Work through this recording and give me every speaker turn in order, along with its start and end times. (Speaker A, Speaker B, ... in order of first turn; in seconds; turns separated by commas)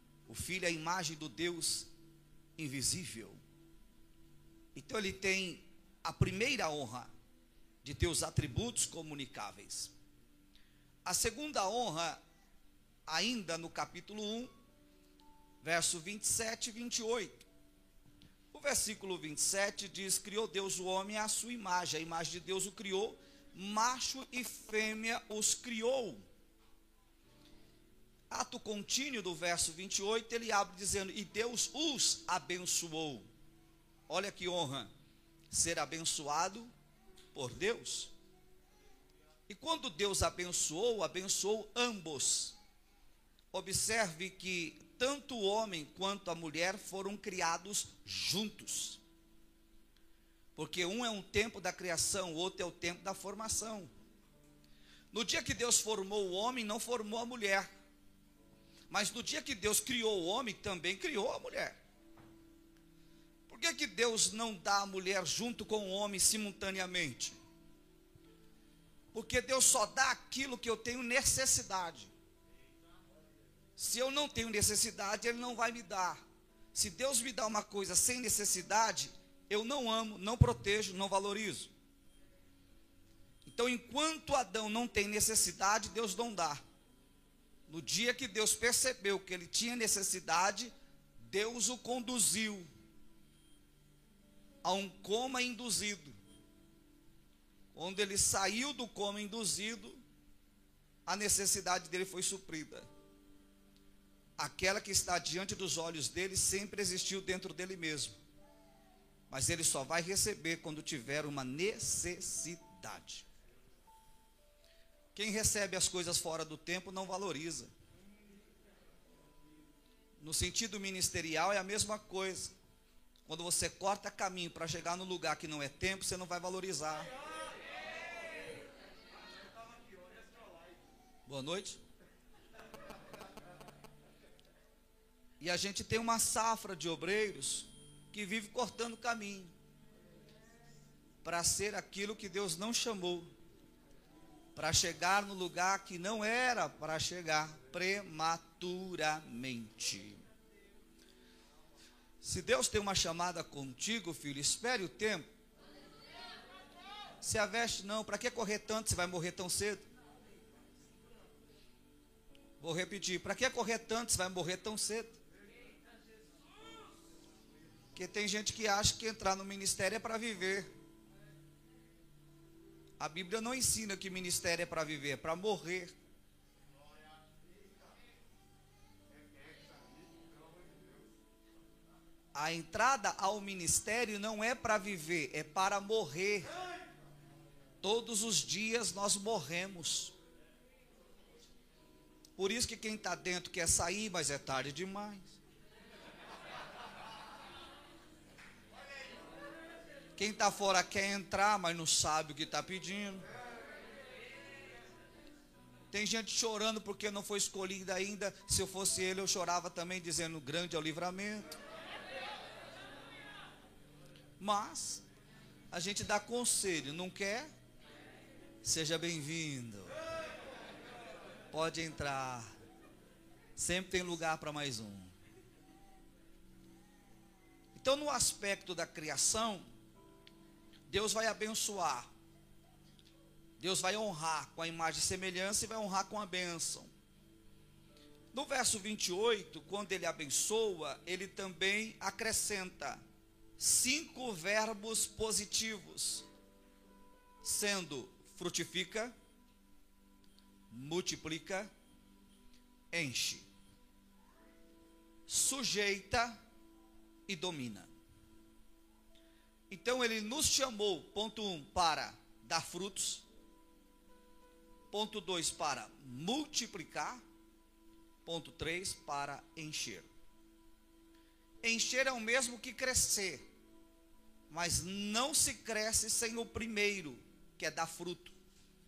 Speaker A: 0.3-1.9, Speaker A: 2.6-3.4, Speaker A: 4.7-7.1, Speaker A: 7.8-9.9, Speaker A: 11.0-12.2, Speaker A: 13.1-14.5, Speaker A: 15.6-17.5, Speaker A: 18.5-26.2, Speaker A: 28.3-33.2, Speaker A: 34.1-34.9, Speaker A: 35.5-36.7, Speaker A: 37.3-38.1, Speaker A: 39.5-42.6, Speaker A: 43.5-49.0, Speaker A: 50.5-53.9, Speaker A: 55.1-57.7, Speaker A: 58.9-61.8, Speaker A: 63.5-67.3, Speaker A: 69.1-72.1, Speaker A: 73.8-76.2, Speaker A: 76.7-81.7, Speaker A: 83.4-86.6, Speaker A: 87.7-92.7, Speaker A: 94.6-96.2, Speaker A: 97.7-100.0, Speaker A: 101.1-102.8, Speaker A: 104.4-108.2, Speaker A: 109.3-113.2, Speaker A: 115.1-117.7, Speaker A: 120.2-122.5, Speaker A: 123.2-127.1, Speaker A: 131.3-131.8, Speaker A: 135.4-139.5, Speaker A: 141.2-143.3, Speaker A: 144.6-150.2, Speaker A: 152.2-155.3, Speaker A: 157.2-159.8, Speaker A: 162.6-165.2, Speaker A: 167.9-170.7, Speaker A: 173.0-175.9, Speaker A: 182.3-186.5, Speaker A: 187.8-190.1, Speaker A: 192.4-195.4, Speaker A: 200.2-203.2, Speaker A: 205.9-211.6, Speaker A: 214.4-215.0, Speaker A: 215.7-217.5, Speaker A: 218.6-219.9, Speaker A: 221.5-222.5, Speaker A: 223.6-225.1, Speaker A: 227.7-229.7, Speaker A: 230.9-232.1, Speaker A: 233.6-236.9, Speaker A: 238.3-243.0, Speaker A: 243.6-246.2, Speaker A: 247.4-249.1, Speaker A: 250.7-251.7, Speaker A: 252.9-253.5, Speaker A: 255.3-256.4, Speaker A: 257.3-257.9, Speaker A: 259.7-263.2, Speaker A: 264.9-267.2, Speaker A: 268.2-270.1, Speaker A: 271.6-273.4, Speaker A: 274.5-278.3